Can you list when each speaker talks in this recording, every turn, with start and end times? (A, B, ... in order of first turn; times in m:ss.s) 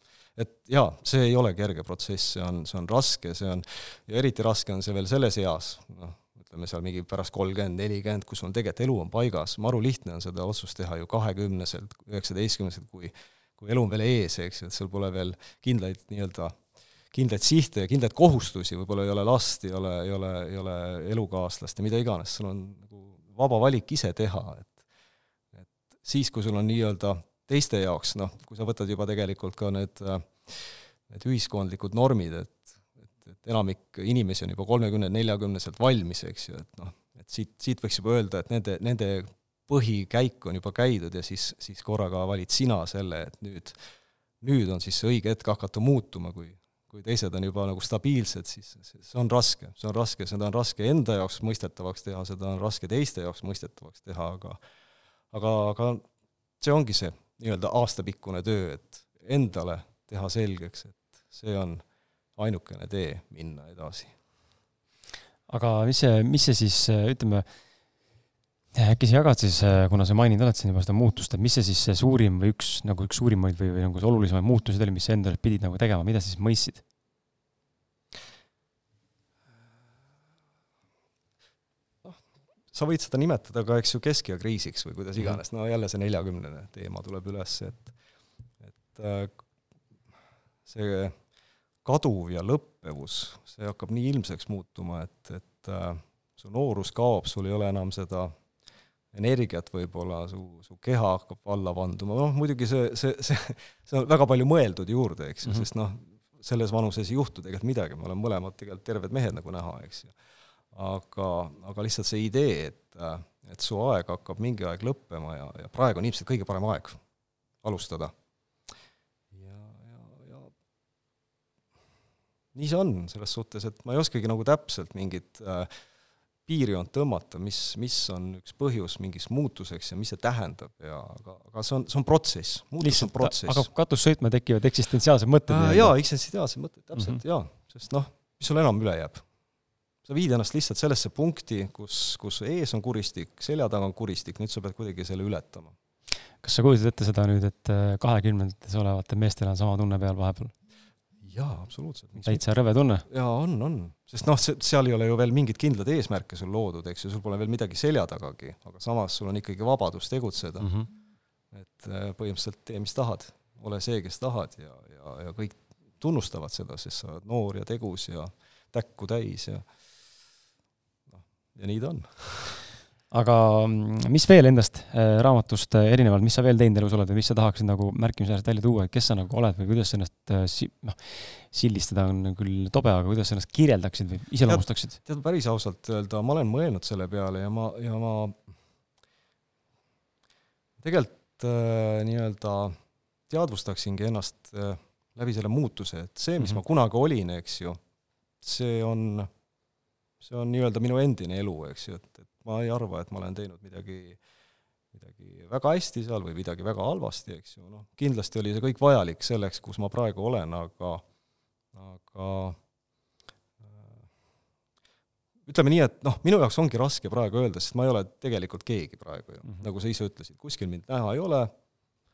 0:00.4-0:24.8 A
0:25.5-0:43.8 A
0:44.4-0:54.6 A
0:55.3-0:56.0 A
0:56.6-1:01.8 A
1:02.4-1:04.2 A
1:05.5-1:07.5 B
1:08.8-1:16.8 B
1:22.7-1:28.0 A
1:28.6-1:29.4 A
1:30.7-1:31.2 A
1:31.8-1:38.3 A
1:39.1-1:50.2 A
1:50.7-1:57.0 A
1:57.6-1:58.1 A
1:59.3-2:00.5 A
2:02.5-2:05.7 A
2:06.5-2:13.7 A
2:12.8-2:15.9 B
2:15.5-2:19.2 A
2:20.0-2:25.7 A
2:26.4-2:30.6 B
2:31.2-2:32.4 A
2:32.2-2:33.1 B
2:33.1-2:40.8 A
2:40.6-2:40.9 B
2:41.5-2:49.8 A
2:51.1-2:52.6 A
2:53.1-3:05.0 B
3:04.5-3:08.5 A
3:10.8-3:12.8 A
3:13.3-3:17.8 A
3:18.4-3:19.3 A
3:20.2-3:24.2 A
3:24.9-3:31.0 A
3:31.7-3:32.6 A
3:33.6-3:34.0 A
3:35.5-3:41.5 A